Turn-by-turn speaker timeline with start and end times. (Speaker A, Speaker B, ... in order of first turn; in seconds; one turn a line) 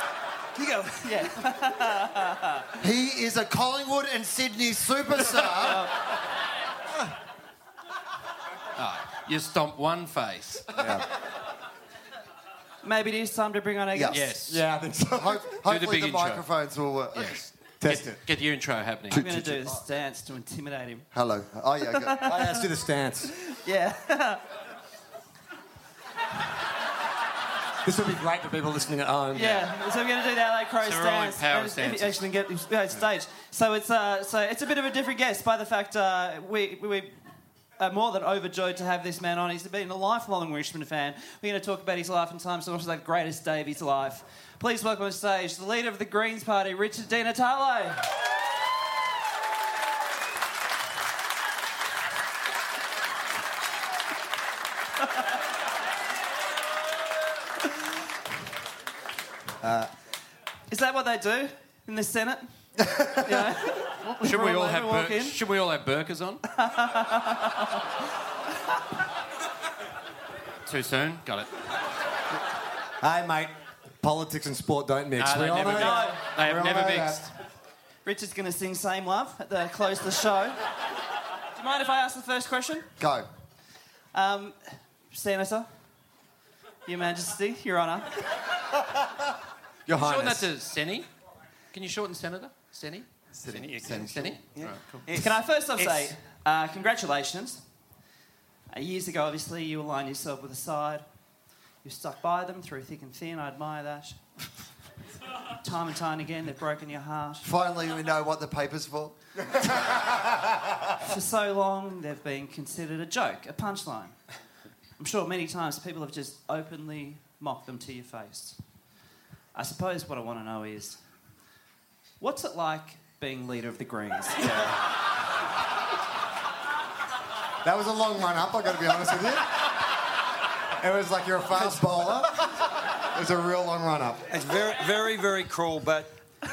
Speaker A: 0.8-2.7
Speaker B: 2.8-5.9
Speaker A: 5.6-5.9
Speaker C: 8.8-10.7
Speaker B: 10.8-11.0
Speaker D: 10.8-11.1
Speaker A: 12.8-14.2
Speaker B: 13.9-14.2
Speaker C: 14.1-14.6
Speaker D: 14.5-15.6
Speaker B: 15.2-17.4
Speaker C: 15.7-16.4
Speaker C: 17.1-19.2
Speaker D: 17.8-18.2
Speaker B: 19.1-19.7
Speaker A: 19.1-21.1
Speaker B: 21.1-22.2
Speaker A: 22.0-22.6
Speaker D: 22.2-23.3
Speaker A: 23.5-24.4
Speaker D: 27.8-29.6
Speaker A: 29.3-37.2
Speaker C: 30.8-32.2
Speaker A: 37.8-48.1
Speaker D: 59.6-59.9
Speaker A: 60.7-62.5
Speaker D: 62.8-63.5
Speaker A: 63.1-65.4
Speaker C: 64.2-66.4
Speaker A: 66.5-67.8
Speaker C: 70.7-71.5
Speaker D: 73.0-77.3
Speaker C: 75.2-77.3
Speaker A: 75.8-76.2
Speaker A: 78.0-80.6
Speaker A: 81.5-82.9
Speaker B: 83.0-83.3
Speaker A: 84.1-85.7
Speaker A: 86.9-88.2
Speaker D: 89.9-90.5
Speaker C: 90.0-91.1
Speaker C: 91.7-93.1
Speaker B: 93.3-94.2
Speaker E: 93.5-96.1
Speaker C: 93.9-95.0
Speaker A: 95.1-97.6
Speaker A: 98.7-101.0
Speaker A: 101.8-104.2
Speaker A: 105.6-107.5
Speaker B: 107.4-110.1
Speaker A: 111.0-114.2
Speaker A: 115.0-118.6
Speaker A: 119.5-121.0
Speaker A: 122.2-124.7
Speaker D: 127.6-129.7
Speaker D: 130.8-132.5
Speaker D: 133.1-134.2
Speaker E: 134.3-136.2